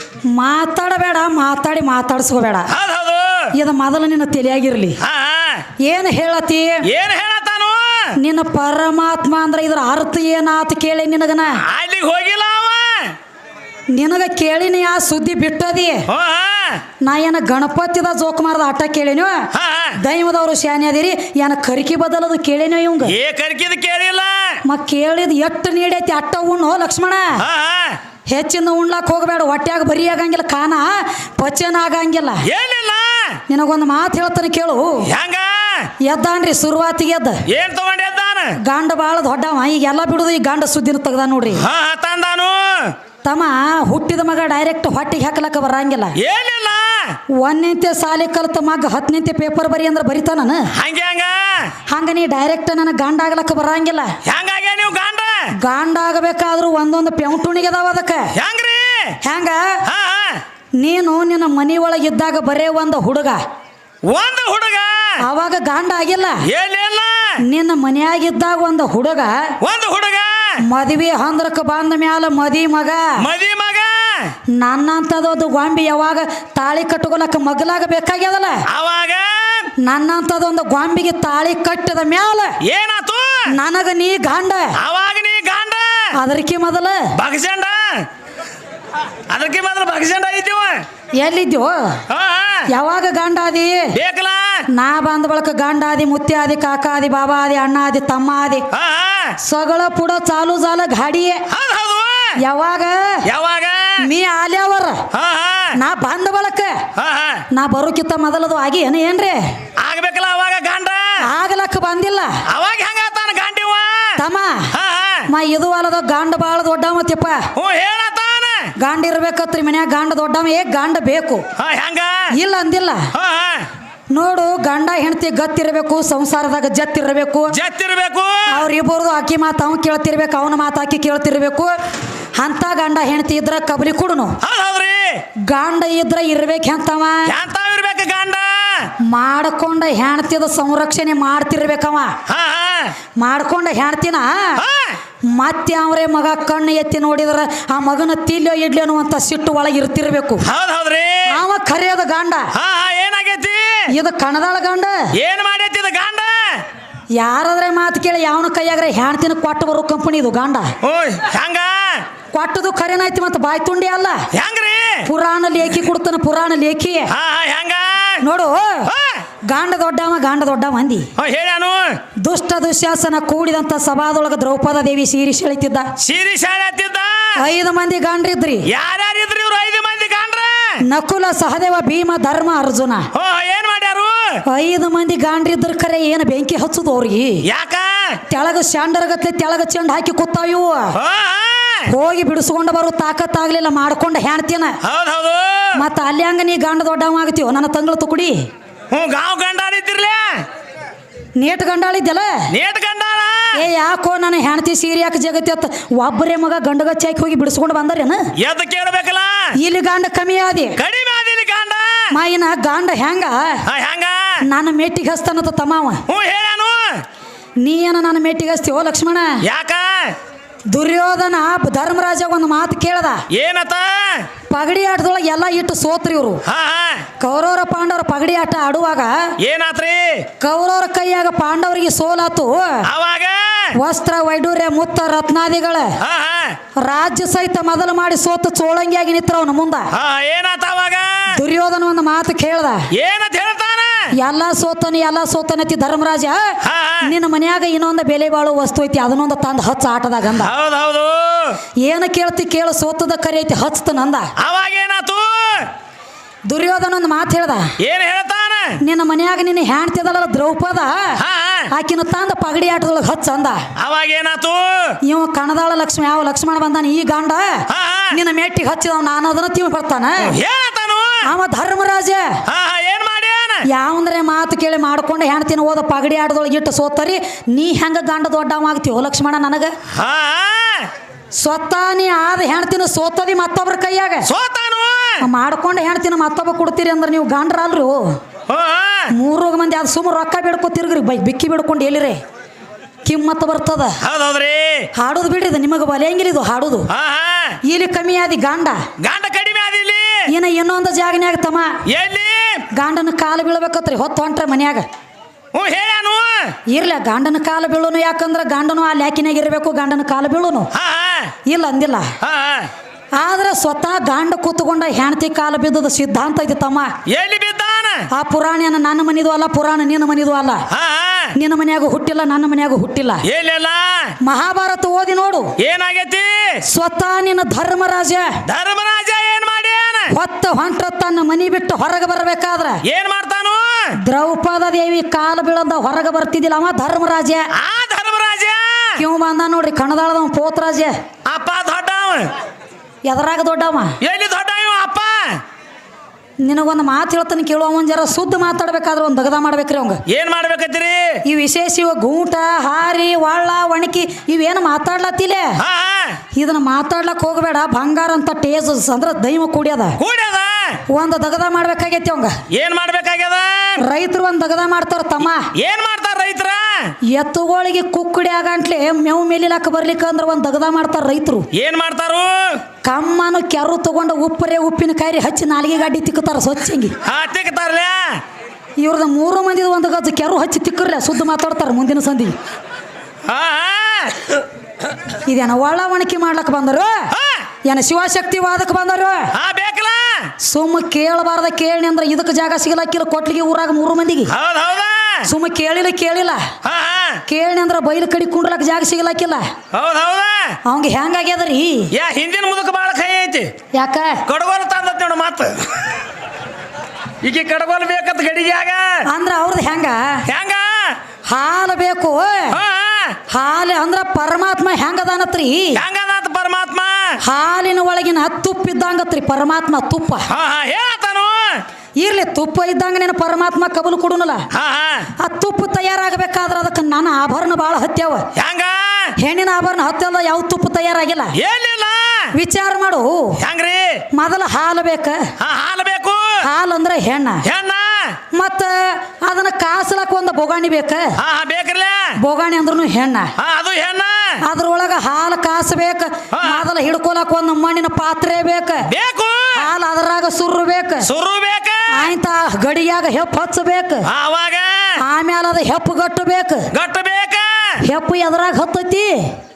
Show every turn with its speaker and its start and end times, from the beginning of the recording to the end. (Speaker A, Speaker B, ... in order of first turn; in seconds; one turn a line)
Speaker A: 0.3-2.7
Speaker B: 2.7-3.5
Speaker A: 3.5-5.0
Speaker B: 5.0-5.7
Speaker A: 5.8-6.9
Speaker B: 6.8-8.1
Speaker A: 8.2-11.6
Speaker B: 11.6-13.1
Speaker A: 13.9-16.1
Speaker B: 16.1-16.8
Speaker A: 17.0-23.1
Speaker B: 19.5-20.0
Speaker B: 23.1-24.6
Speaker A: 24.6-27.4
Speaker B: 27.4-28.0
Speaker A: 28.3-32.5
Speaker B: 32.4-33.4
Speaker A: 33.5-35.1
Speaker B: 35.0-35.9
Speaker A: 36.0-37.4
Speaker B: 37.5-38.6
Speaker A: 38.6-41.6
Speaker B: 41.5-42.9
Speaker A: 43.2-46.2
Speaker B: 46.2-47.2
Speaker A: 47.3-50.7
Speaker B: 50.7-51.7
Speaker A: 51.9-54.1
Speaker B: 54.2-55.5
Speaker A: 55.6-58.3
Speaker B: 58.3-59.2
Speaker A: 59.2-59.8
Speaker B: 59.8-60.4
Speaker A: 60.8-63.4
Speaker B: 64.0-65.2
Speaker A: 65.2-66.5
Speaker B: 66.5-67.4
Speaker A: 67.4-69.5
Speaker B: 69.6-70.6
Speaker A: 70.6-73.2
Speaker B: 73.2-74.3
Speaker A: 74.5-78.6
Speaker B: 78.7-79.7
Speaker A: 79.8-82.5
Speaker B: 82.6-83.5
Speaker A: 83.5-84.8
Speaker B: 84.8-86.1
Speaker A: 86.1-87.1
Speaker B: 87.1-88.1
Speaker B: 89.3-90.8
Speaker A: 91.2-92.0
Speaker B: 92.1-92.7
Speaker A: 92.7-93.9
Speaker B: 93.9-94.6
Speaker A: 94.7-98.7
Speaker B: 98.7-99.4
Speaker A: 99.4-101.4
Speaker B: 101.5-102.4
Speaker A: 102.4-103.2
Speaker B: 103.2-104.1
Speaker A: 104.0-105.0
Speaker B: 105.1-105.8
Speaker A: 105.7-106.8
Speaker B: 107.0-107.4
Speaker A: 107.5-109.5
Speaker B: 109.8-111.2
Speaker A: 111.2-112.4
Speaker B: 112.5-114.2
Speaker A: 114.2-114.7
Speaker B: 114.7-115.3
Speaker A: 115.3-117.5
Speaker B: 117.5-118.7
Speaker A: 118.8-121.4
Speaker B: 121.6-122.3
Speaker A: 122.3-123.1
Speaker B: 123.1-123.7
Speaker A: 124.1-127.6
Speaker B: 127.5-128.6
Speaker A: 128.5-131.7
Speaker A: 132.3-134.4
Speaker B: 134.4-135.2
Speaker A: 135.4-137.3
Speaker B: 137.2-138.9
Speaker A: 139.0-142.1
Speaker B: 142.3-142.9
Speaker A: 143.2-144.6
Speaker B: 144.6-145.0
Speaker A: 145.2-150.4
Speaker B: 150.4-151.4
Speaker A: 151.3-152.5
Speaker B: 152.5-153.9
Speaker A: 153.9-155.1
Speaker B: 155.1-156.6
Speaker A: 157.1-160.7
Speaker B: 160.8-162.0
Speaker A: 162.3-164.2
Speaker B: 164.3-165.1
Speaker A: 165.0-167.1
Speaker B: 167.1-168.2
Speaker A: 168.2-168.9
Speaker B: 168.9-169.2
Speaker A: 169.4-171.1
Speaker B: 171.2-172.0
Speaker A: 172.2-175.9
Speaker B: 176.0-177.4
Speaker A: 177.4-178.7
Speaker B: 178.7-180.8
Speaker A: 180.8-183.1
Speaker B: 183.1-184.4
Speaker A: 184.4-187.4
Speaker B: 187.4-188.2
Speaker A: 188.3-190.9
Speaker B: 190.9-191.9
Speaker A: 191.9-194.8
Speaker B: 194.8-195.8
Speaker A: 195.7-198.5
Speaker B: 198.9-200.4
Speaker A: 201.4-202.4
Speaker B: 202.5-203.6
Speaker A: 203.5-208.3
Speaker B: 208.4-209.5
Speaker A: 209.6-210.8
Speaker B: 210.8-212.2
Speaker A: 212.1-213.6
Speaker B: 213.7-214.4
Speaker A: 214.4-216.0
Speaker B: 216.1-217.0
Speaker A: 217.6-219.4
Speaker B: 219.4-220.1
Speaker A: 220.7-223.2
Speaker B: 223.3-224.3
Speaker A: 224.5-226.4
Speaker B: 226.4-227.1
Speaker A: 227.2-229.3
Speaker B: 229.4-230.2
Speaker A: 230.4-232.9
Speaker B: 232.8-233.7
Speaker A: 233.7-236.0
Speaker B: 236.0-236.6
Speaker A: 236.8-239.9
Speaker B: 239.9-241.4
Speaker A: 241.3-242.9
Speaker B: 242.9-244.1
Speaker A: 244.1-250.5
Speaker B: 246.6-247.1
Speaker B: 250.3-251.6
Speaker A: 251.8-254.3
Speaker B: 254.4-255.7
Speaker A: 256.5-257.7
Speaker B: 257.8-258.8
Speaker A: 258.8-261.2
Speaker B: 261.2-261.7
Speaker A: 261.7-263.7
Speaker B: 263.8-265.0
Speaker A: 265.0-270.3
Speaker B: 267.7-268.2
Speaker B: 270.2-271.3
Speaker A: 271.2-272.4
Speaker B: 272.4-273.7
Speaker A: 273.6-279.7
Speaker B: 279.9-280.9
Speaker A: 281.3-284.3
Speaker B: 284.2-285.2
Speaker A: 285.2-288.2
Speaker B: 288.5-289.1
Speaker A: 289.1-292.2
Speaker A: 293.0-294.0
Speaker B: 294.0-294.9
Speaker A: 294.9-296.9
Speaker B: 296.9-297.6
Speaker A: 297.6-298.8
Speaker B: 299.0-300.3
Speaker A: 300.3-301.8
Speaker B: 301.9-302.6
Speaker A: 302.7-304.9
Speaker B: 305.5-306.6
Speaker A: 306.7-310.7
Speaker B: 310.7-311.3
Speaker A: 311.4-312.1
Speaker B: 312.2-312.7
Speaker A: 313.1-316.9
Speaker B: 317.1-318.1
Speaker A: 318.1-320.6
Speaker B: 320.7-321.4
Speaker A: 321.3-323.2
Speaker B: 323.2-324.1
Speaker A: 324.2-325.5
Speaker B: 325.6-326.6
Speaker A: 326.7-328.4
Speaker B: 328.4-330.2
Speaker A: 330.1-332.8
Speaker B: 332.8-333.9
Speaker A: 334.0-337.5
Speaker B: 337.5-339.0
Speaker A: 339.0-341.0
Speaker B: 341.2-342.3
Speaker A: 343.1-344.0
Speaker B: 344.0-345.4
Speaker A: 346.4-350.0
Speaker B: 350.1-351.2
Speaker A: 351.2-355.6
Speaker B: 355.6-356.2
Speaker A: 356.3-360.0
Speaker B: 360.0-360.8
Speaker A: 360.9-362.4
Speaker B: 362.5-363.8
Speaker A: 363.8-365.5
Speaker B: 365.5-366.9
Speaker A: 367.1-371.5
Speaker B: 371.5-372.6
Speaker A: 372.8-376.9
Speaker B: 377.0-378.2
Speaker A: 378.8-382.4
Speaker B: 383.2-384.4
Speaker A: 385.2-387.1
Speaker B: 387.1-387.4
Speaker A: 387.6-389.3
Speaker B: 389.3-390.3
Speaker A: 390.4-394.3
Speaker B: 394.3-395.3
Speaker A: 395.2-396.5
Speaker B: 396.6-397.2
Speaker A: 397.3-399.5
Speaker B: 399.7-400.6
Speaker A: 400.6-401.9
Speaker B: 401.9-403.5
Speaker A: 403.7-404.2
Speaker B: 404.2-406.0
Speaker B: 407.2-409.0
Speaker A: 409.1-410.2
Speaker B: 410.3-411.0
Speaker A: 411.3-412.6
Speaker B: 412.5-413.2
Speaker A: 413.3-415.8
Speaker B: 415.7-417.2
Speaker A: 417.2-420.3
Speaker B: 420.3-421.6
Speaker A: 422.0-424.5
Speaker B: 424.5-425.1
Speaker A: 425.2-428.3
Speaker B: 428.3-429.1
Speaker A: 429.2-431.4
Speaker B: 431.4-432.3
Speaker A: 432.3-433.4
Speaker B: 433.4-434.0
Speaker A: 434.1-435.3
Speaker B: 435.4-436.4
Speaker A: 436.4-437.4
Speaker B: 437.4-438.2
Speaker A: 438.3-441.1
Speaker B: 441.2-442.2
Speaker A: 442.2-443.3
Speaker B: 443.4-444.4
Speaker A: 444.4-448.9
Speaker B: 446.3-446.6
Speaker B: 448.9-449.7
Speaker A: 449.5-451.1
Speaker B: 451.0-452.1
Speaker A: 451.9-454.1
Speaker B: 454.1-455.0
Speaker A: 455.0-456.7
Speaker B: 456.7-457.8
Speaker A: 457.8-459.4